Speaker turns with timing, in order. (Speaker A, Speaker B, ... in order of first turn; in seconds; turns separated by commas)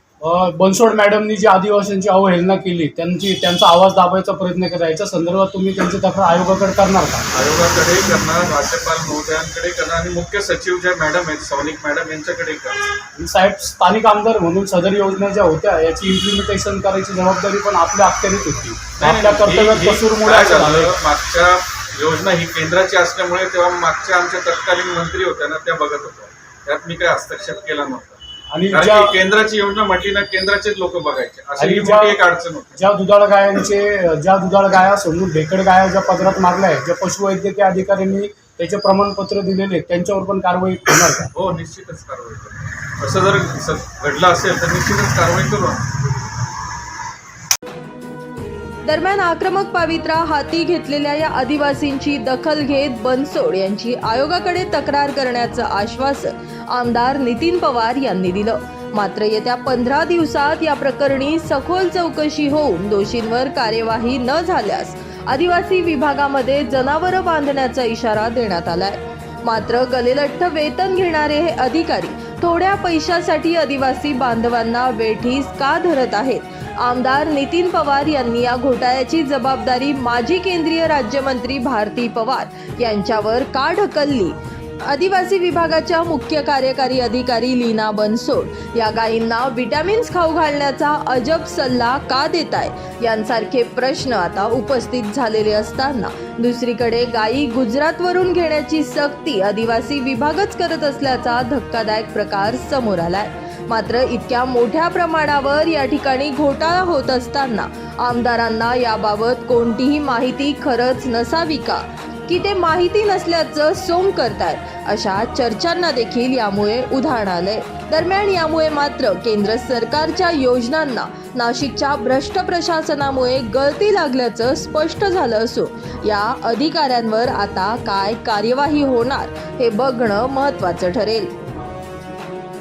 Speaker A: 0.2-7.2, Speaker B: 7.3-12.9, Speaker A: 13.2-21.0, Speaker B: 19.0-28.2, Speaker A: 28.5-29.2, Speaker B: 28.7-32.8, Speaker A: 31.6-32.2, Speaker A: 32.8-41.3, Speaker B: 41.4-45.8, Speaker C: 48.9-84.4, Speaker C: 84.9-131.3